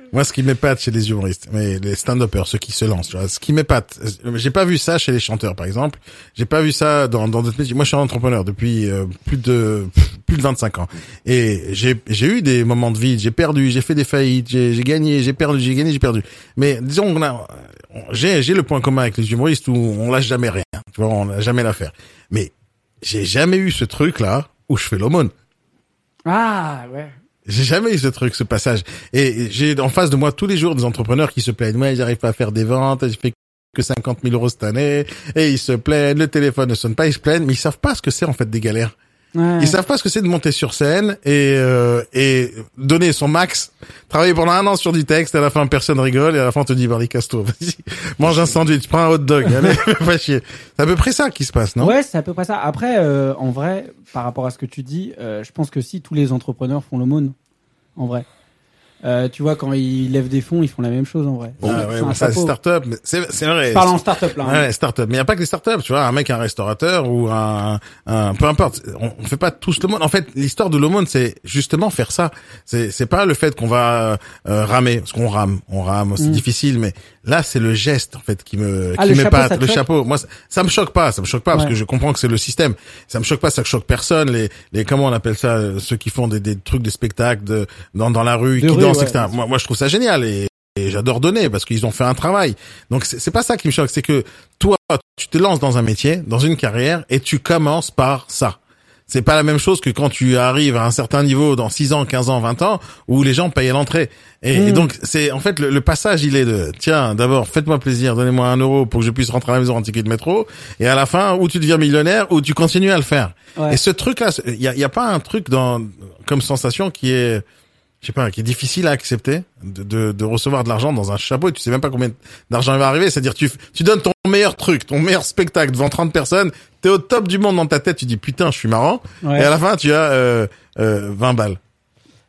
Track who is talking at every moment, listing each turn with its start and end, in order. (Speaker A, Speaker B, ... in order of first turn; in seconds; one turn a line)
Speaker A: 0.1-25.3
Speaker B: 26.3-27.1
Speaker A: 27.5-39.0
Speaker B: 39.4-39.8
Speaker A: 39.6-52.0
Speaker B: 51.8-57.4
Speaker B: 58.0-58.3
Speaker B: 59.0-62.5
Speaker A: 61.6-117.4
Speaker B: 63.7-64.7
Speaker B: 79.0-79.8
Speaker B: 88.6-89.3
Speaker B: 104.5-104.9
Speaker A: 118.0-131.6
Speaker B: 129.2-129.5